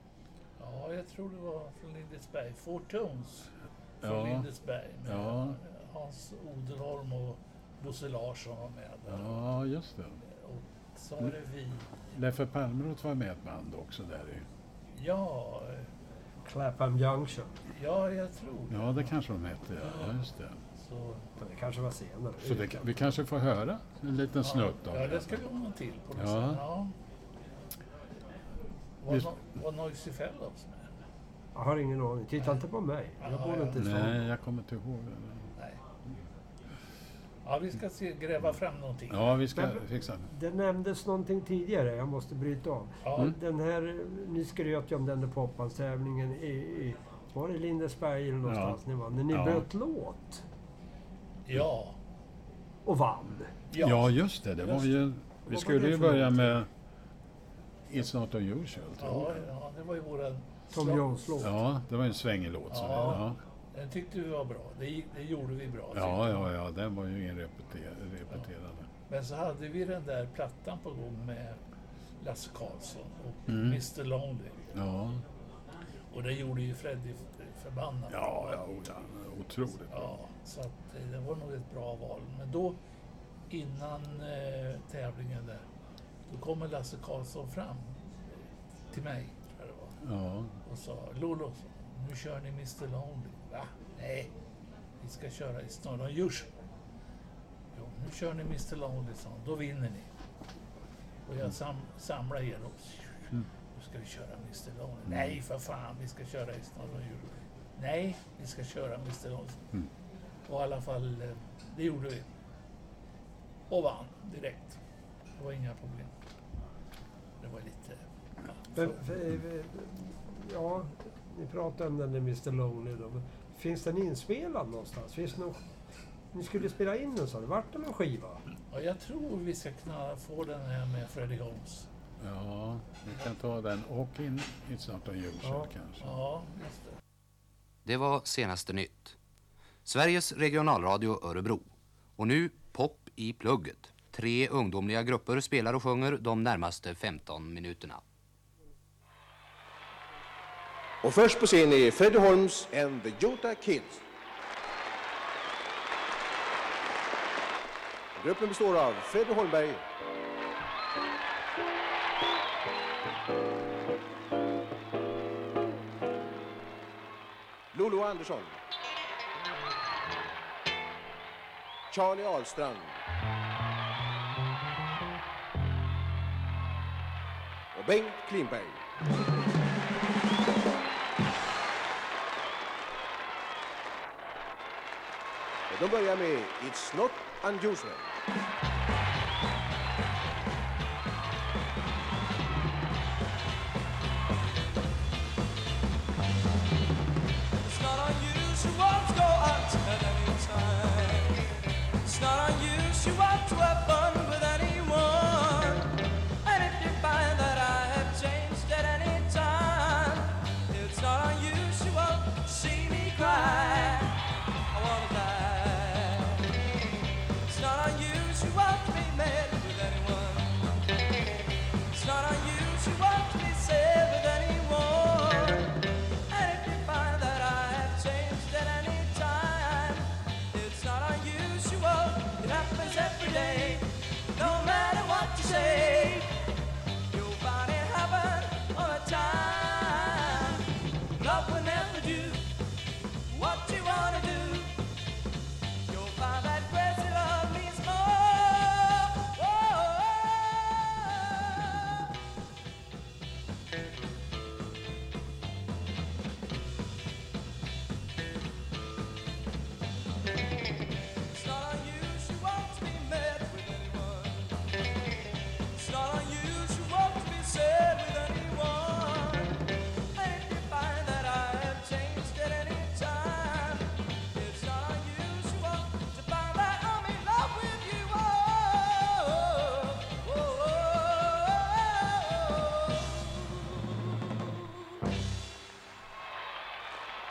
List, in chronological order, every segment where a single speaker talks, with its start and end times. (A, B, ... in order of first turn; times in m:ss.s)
0:00.6-0:03.5 A
0:04.0-0:04.5 B
0:04.0-0:09.4 A
0:05.1-0:05.6 B
0:09.1-0:10.2 B
0:10.3-0:11.9 A
0:12.1-0:14.5 B
0:14.9-0:15.9 A
0:16.4-0:17.6 C
0:17.7-0:19.1 A
0:18.7-0:20.6 B
0:19.8-0:20.2 A
0:20.8-0:21.3 A
0:21.4-0:22.8 C
0:22.4-0:25.4 B
0:24.4-0:26.9 A
0:26.2-0:26.6 B
0:29.0-0:30.9 A
0:31.6-0:34.2 C
0:33.2-0:33.8 A
0:33.7-0:35.5 B
0:37.4-0:39.3 A
0:39.1-0:40.3 B
0:39.5-0:50.4 C
0:43.0-0:43.4 A
0:48.4-0:48.8 B
0:49.3-0:49.7 B
0:51.5-0:52.0 A
0:52.8-0:53.6 C
0:53.7-0:54.2 A
0:53.8-0:56.7 B
0:55.5-0:56.6 C
0:57.9-0:59.5 B
0:59.0-1:01.1 A
1:00.7-1:01.5 C
1:01.4-1:03.4 B
1:02.7-1:06.5 A
1:05.9-1:08.9 B
1:09.1-1:11.6 A
1:12.2-1:14.7 A
1:13.5-1:13.8 B
1:14.7-1:15.2 B
1:16.1-1:18.6 A
1:18.1-1:20.1 B
1:19.9-1:22.8 A
1:23.5-1:25.6 A
1:26.3-1:28.0 A
1:28.9-1:30.0 A
1:30.0-1:30.6 B
1:30.6-1:34.3 A
1:35.0-1:36.5 A
1:37.7-1:40.1 A
1:41.3-1:49.7 A
1:45.1-1:45.4 B
1:50.5-1:52.3 A
1:53.7-1:54.8 A
1:55.4-1:56.1 A
1:57.4-1:59.0 A
1:58.8-2:05.6 C
2:06.3-2:08.4 C
2:08.7-2:11.9 A
2:12.2-2:16.1 B
2:15.4-2:15.7 C
2:16.0-2:17.0 A
2:17.9-2:19.2 D
2:19.8-2:28.0 D
2:31.0-2:34.0 E
2:38.2-2:39.8 E
2:47.7-2:48.6 E
2:51.9-2:53.0 E
2:57.7-2:58.8 E
3:05.7-3:08.2 E
3:17.6-3:21.5 F
3:22.0-3:34.2 F
3:34.7-3:40.8 F
3:41.9-3:45.7 F
3:46.3-3:56.4 F
3:57.1-4:02.4 F
4:03.3-4:04.8 F
4:05.9-4:12.1 F
4:21.3-4:24.6 F
4:25.7-4:44.3 F